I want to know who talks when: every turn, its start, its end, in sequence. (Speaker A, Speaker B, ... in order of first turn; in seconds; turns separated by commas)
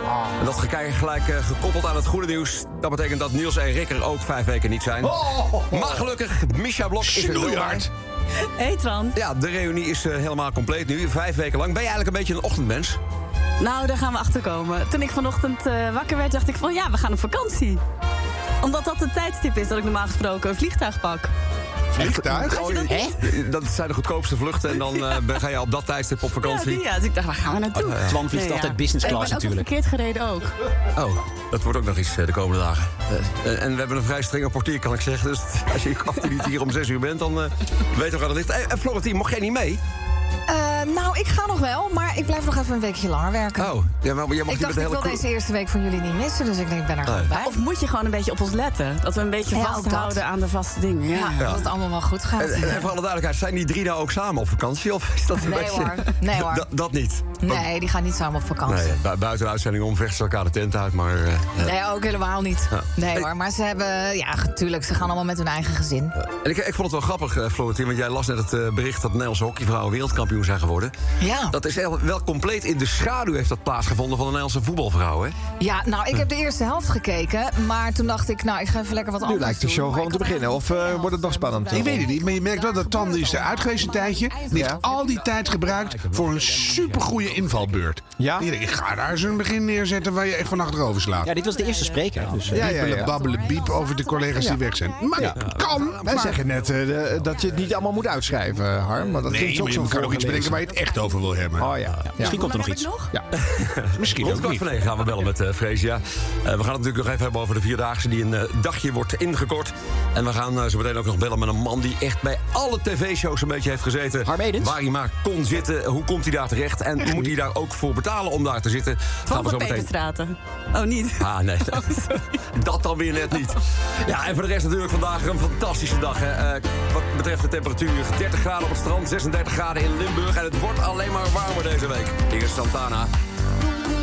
Speaker A: 0.4-7.8, Speaker B: 5.8-6.0, Speaker B: 7.0-7.9, Speaker C: 8.6-9.1, Speaker A: 9.1-13.0, Speaker C: 13.6-17.8, Speaker C: 18.6-21.3, Speaker B: 21.9-22.7, Speaker C: 22.3-23.1, Speaker D: 22.7-23.1, Speaker A: 23.2-26.8, Speaker C: 24.7-25.4, Speaker C: 26.4-30.5, Speaker D: 27.8-29.7, Speaker A: 27.8-28.2, Speaker A: 30.9-39.8, Speaker E: 40.5-43.8, Speaker A: 43.6-45.2, Speaker E: 44.5-47.5, Speaker A: 47.0-47.3, Speaker C: 47.3-51.4, Speaker E: 49.5-50.2, Speaker E: 51.1-52.9, Speaker A: 51.4-51.6, Speaker A: 52.4-57.7, Speaker E: 55.4-56.7, Speaker E: 57.4-59.0, Speaker A: 58.6-61.7, Speaker E: 61.6-66.1, Speaker A: 62.7-63.3, Speaker A: 66.2-70.9, Speaker E: 71.2-71.5, Speaker A: 71.5-75.3, Speaker E: 75.6-84.8, Speaker F: 79.2-82.1, Speaker B: 81.7-91.3, Speaker F: 84.5-84.8, Speaker F: 88.2-88.5, Speaker D: 91.2-93.1, Speaker C: 91.6-91.9, Speaker B: 92.4-96.4, Speaker F: 92.5-93.2, Speaker E: 93.1-95.1, Speaker A: 95.3-96.3, Speaker F: 96.0-100.7, Speaker B: 99.2-101.8, Speaker F: 101.6-102.4, Speaker D: 102.1-102.9, Speaker C: 102.2-103.1, Speaker A: 103.4-119.9, Speaker B: 104.0-104.8, Speaker D: 114.2-114.8, Speaker B: 117.0-117.3, Speaker C: 119.3-122.2, Speaker A: 121.2-121.9, Speaker A: 122.5-133.1